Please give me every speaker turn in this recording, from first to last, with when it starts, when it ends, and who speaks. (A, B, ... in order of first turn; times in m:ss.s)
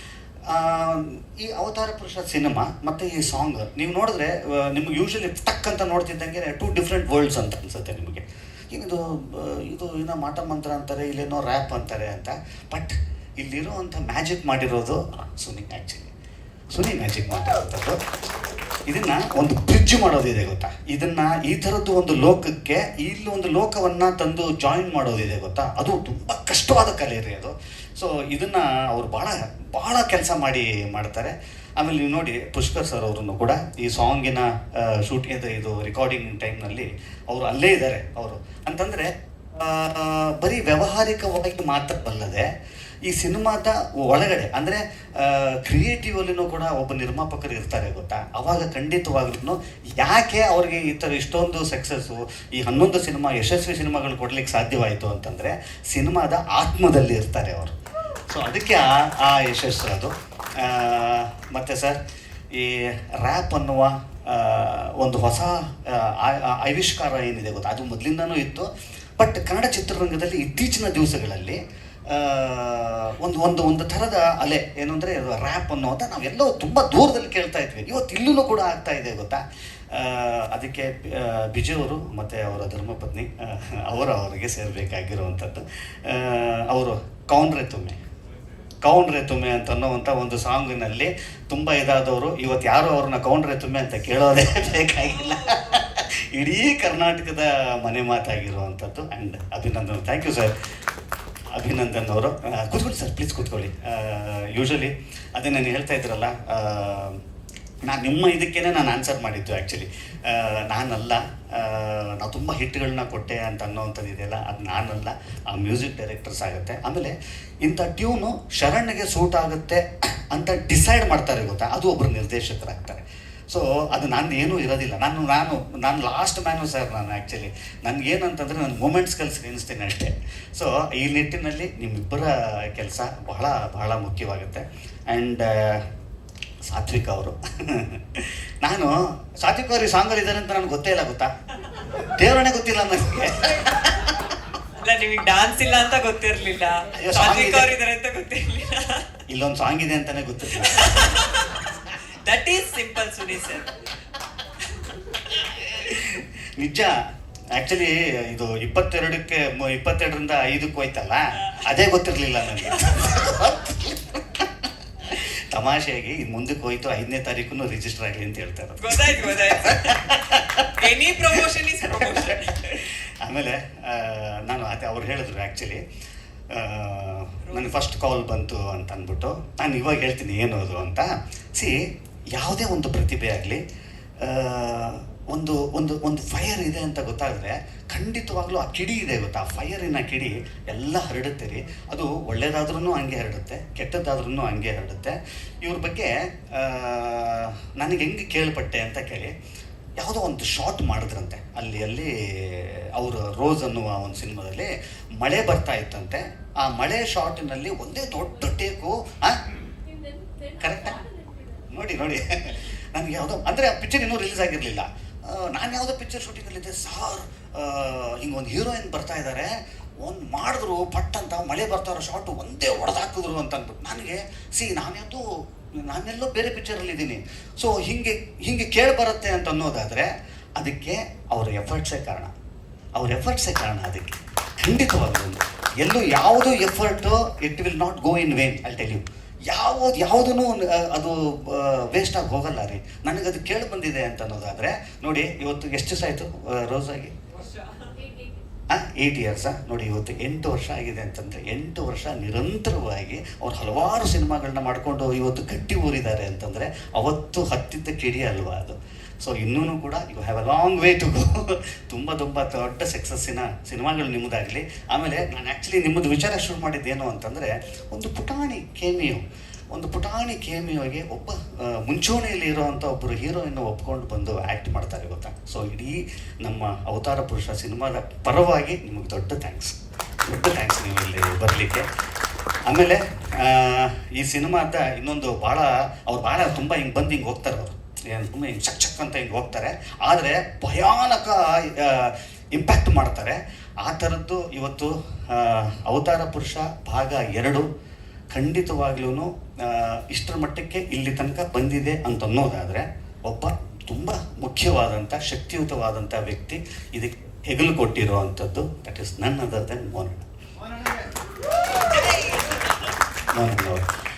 0:00.5-0:16.1 A
0:16.7-0:18.0 A
0:18.9-0:42.5 A
0:43.0-0:57.8 A
0:58.3-1:02.0 A
1:02.5-1:28.0 A
1:28.8-1:40.5 A
1:35.0-1:35.9 B
1:41.5-1:47.2 A
1:47.8-2:15.8 A
2:16.7-2:21.3 A
2:22.0-2:24.3 A
2:24.8-2:29.2 B
2:26.9-2:27.7 A
2:29.3-2:31.0 A
2:30.5-2:33.7 B
2:35.3-2:37.0 A
2:37.5-2:50.8 A
2:41.4-2:41.7 B
2:42.5-2:43.0 B
2:48.8-2:52.8 B
2:51.3-2:55.8 A
2:56.5-3:01.8 A
2:57.4-2:57.8 B
3:02.3-3:03.6 A
3:04.2-3:19.3 A
3:20.0-3:29.4 A
3:30.6-3:31.0 A
3:31.7-3:52.3 A
3:53.0-4:07.1 A
4:08.7-4:41.9 A
4:42.7-4:57.6 A
4:58.3-5:10.3 A
5:12.0-5:12.3 B
5:13.4-5:13.9 A